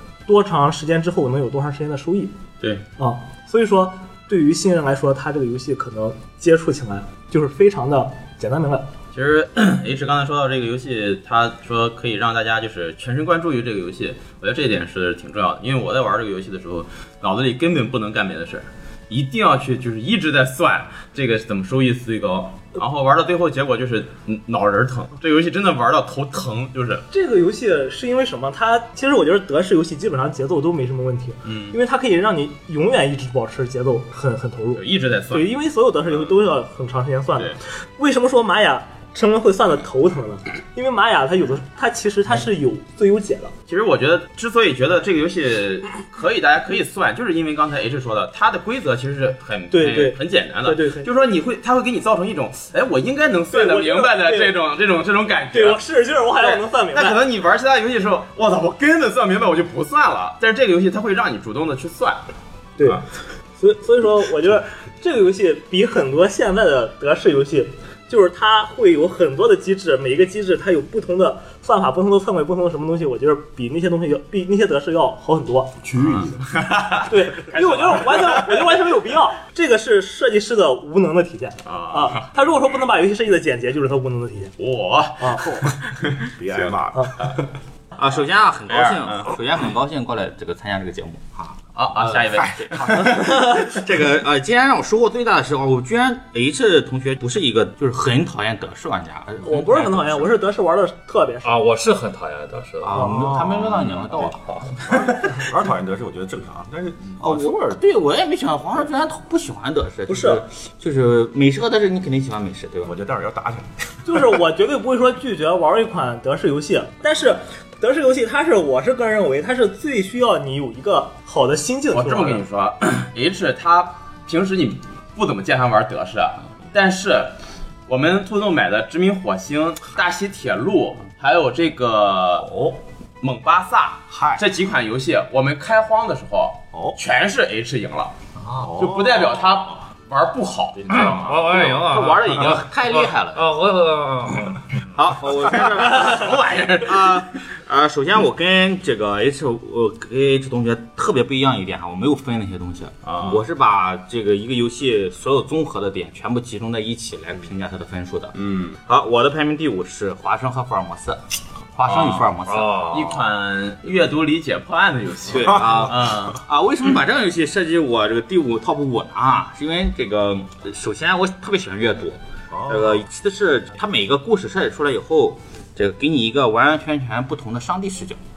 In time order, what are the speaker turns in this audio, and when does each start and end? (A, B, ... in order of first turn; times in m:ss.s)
0:00.3-0:02.4 A
0:02.6-0:02.9 B
0:03.0-0:08.9 A
0:09.1-0:27.1 B
0:27.1-0:43.5 A
0:31.4-0:31.8 B
0:34.8-0:35.5 B
0:43.7-0:55.8 B
0:49.7-0:51.1 A
0:53.5-0:54.5 A
0:55.5-0:57.2 A
0:56.4-1:02.2 B
1:02.8-1:03.0 A
1:03.6-1:15.8 A
1:15.8-1:16.4 C
1:16.0-1:18.8 B
1:17.0-1:24.5 A
1:21.6-1:22.8 B
1:24.6-1:27.4 B
1:25.2-1:25.7 A
1:26.3-1:27.4 C
1:26.9-1:27.2 A
1:28.0-1:40.3 D
1:28.7-1:29.4 B
1:31.8-1:33.1 B
1:39.4-1:41.6 A
1:41.4-1:44.8 E
1:42.8-1:44.4 D
1:43.1-1:43.8 C
1:44.9-1:47.8 C
1:47.2-1:52.9 D
1:50.1-1:50.4 A
1:52.8-1:54.3 C
1:54.0-2:02.4 A
2:01.9-2:07.4 B
2:07.9-2:12.5 B
2:13.2-2:18.1 B
2:14.1-2:14.4 C
2:16.7-2:17.0 C
2:18.4-2:18.7 D
2:18.6-2:19.6 C
2:18.8-2:21.7 B
2:20.9-2:24.9 E
2:21.5-2:23.4 D
2:22.3-2:22.6 B
2:24.9-2:41.2 D
2:25.5-2:27.2 B
2:33.0-2:33.4 B
2:38.4-2:38.8 B
2:41.7-2:42.8 D
2:41.9-2:43.2 E
2:42.9-2:46.4 B
2:45.3-2:58.2 D
2:45.4-2:46.1 C
2:52.5-2:53.1 C